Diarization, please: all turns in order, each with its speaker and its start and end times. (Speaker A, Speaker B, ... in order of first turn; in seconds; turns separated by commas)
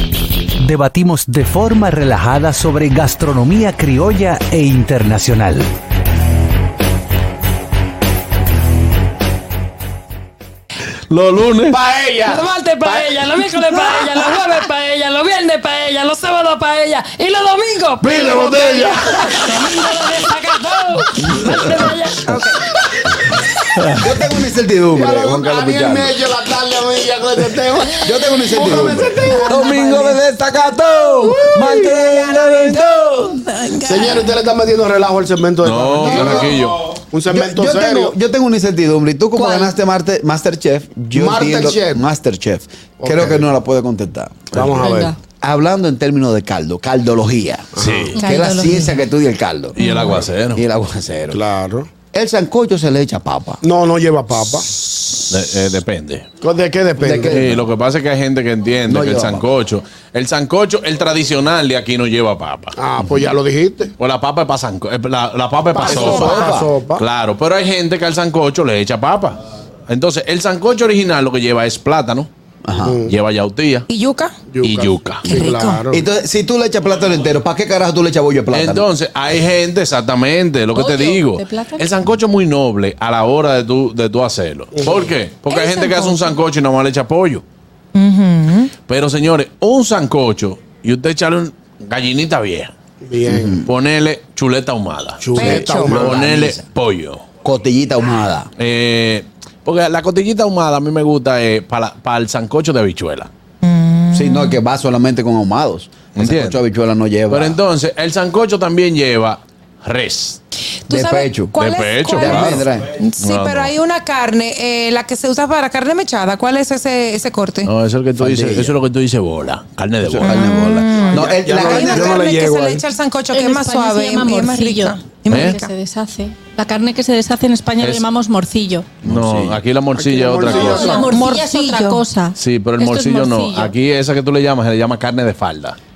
Speaker A: 0.6-5.7, Speaker B: 11.1-11.8, Speaker C: 11.8-12.4, Speaker D: 12.2-22.6, Speaker B: 18.0-19.2, Speaker C: 21.4-21.8, Speaker C: 23.9-26.2, Speaker E: 24.9-29.4, Speaker C: 28.0-33.4, Speaker D: 28.8-30.2, Speaker D: 31.0-34.3, Speaker E: 33.8-36.6, Speaker B: 35.6-37.0, Speaker C: 36.0-36.6, Speaker E: 37.1-38.1, Speaker C: 37.3-51.4, Speaker F: 39.3-39.7, Speaker E: 41.1-42.0, Speaker E: 43.0-43.5, Speaker E: 44.5-45.1, Speaker F: 44.8-45.1, Speaker E: 47.8-48.1, Speaker B: 47.8-48.1, Speaker F: 48.1-48.5, Speaker D: 48.2-49.0, Speaker B: 49.8-50.6, Speaker E: 51.3-51.9, Speaker C: 52.1-53.6, Speaker E: 53.6-54.7, Speaker B: 55.3-56.3, Speaker E: 56.4-57.5, Speaker C: 57.0-57.6, Speaker B: 57.3-62.8, Speaker C: 58.9-59.4, Speaker E: 62.7-63.9, Speaker B: 64.0-72.3, Speaker E: 65.7-67.0, Speaker C: 65.8-66.7, Speaker D: 65.9-66.5, Speaker C: 72.6-73.0, Speaker E: 72.8-73.1, Speaker B: 73.0-73.9, Speaker D: 73.9-74.3, Speaker E: 74.5-76.0, Speaker B: 74.6-75.4, Speaker D: 75.2-75.8, Speaker C: 75.9-78.8, Speaker B: 78.5-87.4, Speaker F: 80.7-81.9, Speaker E: 84.7-85.1, Speaker F: 85.5-86.3, Speaker D: 87.9-88.7, Speaker B: 88.9-92.7, Speaker E: 93.0-93.6, Speaker C: 93.2-93.7, Speaker B: 93.6-97.2, Speaker E: 95.2-96.2, Speaker D: 95.3-95.9, Speaker C: 95.5-96.6, Speaker C: 97.4-98.5, Speaker B: 98.6-103.3, Speaker D: 103.6-104.6, Speaker C: 104.1-107.6, Speaker B: 106.2-106.6, Speaker B: 107.3-110.4, Speaker D: 110.9-117.7, Speaker C: 110.9-111.5, Speaker B: 111.5-113.7, Speaker C: 112.1-112.9, Speaker B: 117.6-120.4, Speaker C: 118.2-118.8, Speaker C: 120.0-122.2, Speaker D: 120.2-125.7, Speaker E: 121.1-122.8, Speaker F: 123.3-128.9, Speaker B: 125.3-125.5, Speaker B: 127.8-128.0, Speaker C: 129.0-129.6, Speaker B: 129.0-131.0, Speaker E: 129.9-131.1, Speaker F: 130.4-133.8, Speaker D: 130.7-132.0, Speaker B: 132.3-135.8